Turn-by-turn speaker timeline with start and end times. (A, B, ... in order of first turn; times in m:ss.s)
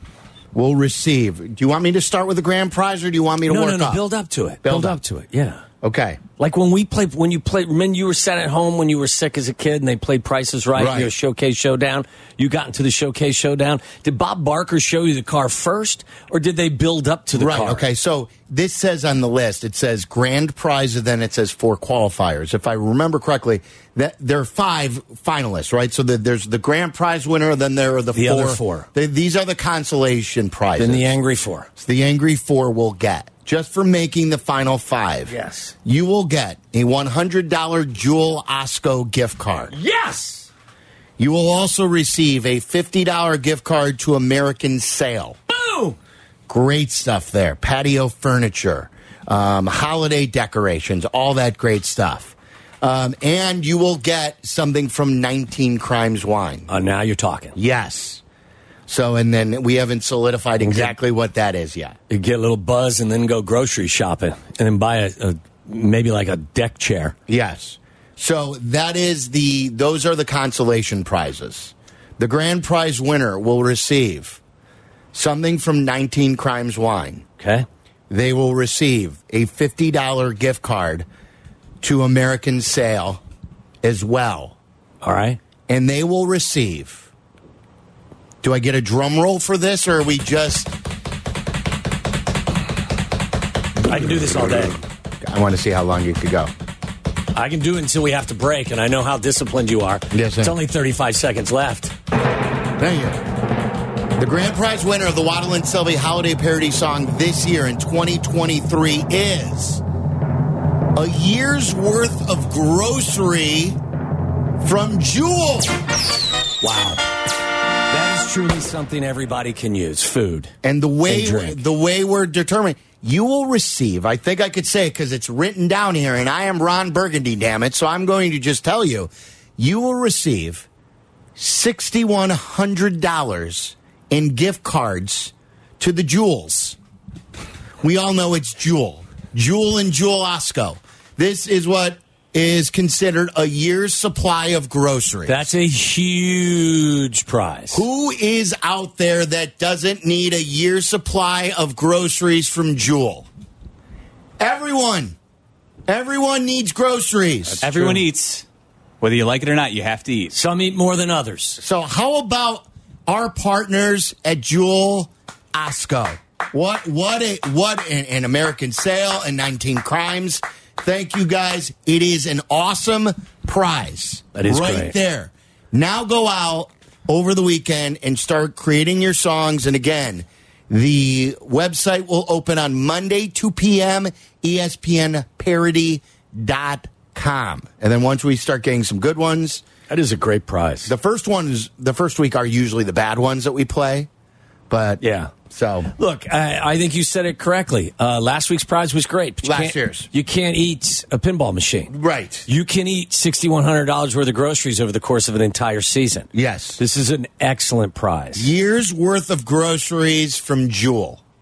0:00.5-0:04.0 A
0:03.5-0:05.6 B
0:04.6-0:05.0 A
0:05.8-0:06.2 A
0:06.4-0:17.8 B
0:10.8-0:11.1 A
0:17.3-0:31.2 A
0:28.2-0:28.9 B
0:30.8-0:31.7 B
0:31.8-0:35.3 A
0:35.3-0:35.7 B
0:35.8-0:39.7 A
0:39.7-0:40.5 B
0:41.2-0:45.4 A
0:45.5-0:46.0 B
0:46.5-0:56.7 A
0:56.7-0:57.6 B
0:57.6-0:58.2 A
0:58.9-1:02.0 A
1:00.6-1:01.0 B
1:02.1-1:07.2 B
1:07.3-1:14.4 A
1:15.1-1:17.2 A
1:17.4-1:17.7 B
1:18.1-1:21.1 A
1:21.8-1:23.2 A
1:23.8-1:24.6 A
1:25.0-1:25.4 B
1:25.7-1:27.1 A
1:28.4-1:30.7 A
1:33.8-1:34.8 B
1:33.9-1:36.5 A
1:37.3-1:41.9 B
1:40.1-1:40.6 A
1:42.8-1:43.2 A
1:44.2-1:49.8 A
1:50.9-1:53.8 A
1:54.6-1:55.8 A
1:56.6-1:57.0 B
1:57.9-2:00.5 B
2:00.6-2:10.7 A
2:01.1-2:01.6 B
2:11.4-2:16.8 A
2:17.8-2:25.5 A
2:25.3-2:27.8 B
2:27.7-2:33.3 A
2:34.4-2:35.2 A
2:35.9-2:37.6 A
2:37.5-2:38.1 B
2:37.6-2:38.5 C
2:39.0-2:40.4 C
2:40.3-2:41.6 B
2:41.6-3:09.6 A
2:54.4-2:55.0 B
3:09.9-3:10.9 B
3:10.9-3:14.1 A
3:14.7-3:15.9 A
3:15.0-3:15.3 B
3:16.0-3:21.9 B
3:19.4-3:20.1 A
3:21.9-3:22.5 A
3:22.5-3:28.5 B
3:26.3-3:26.8 A
3:28.3-3:31.2 A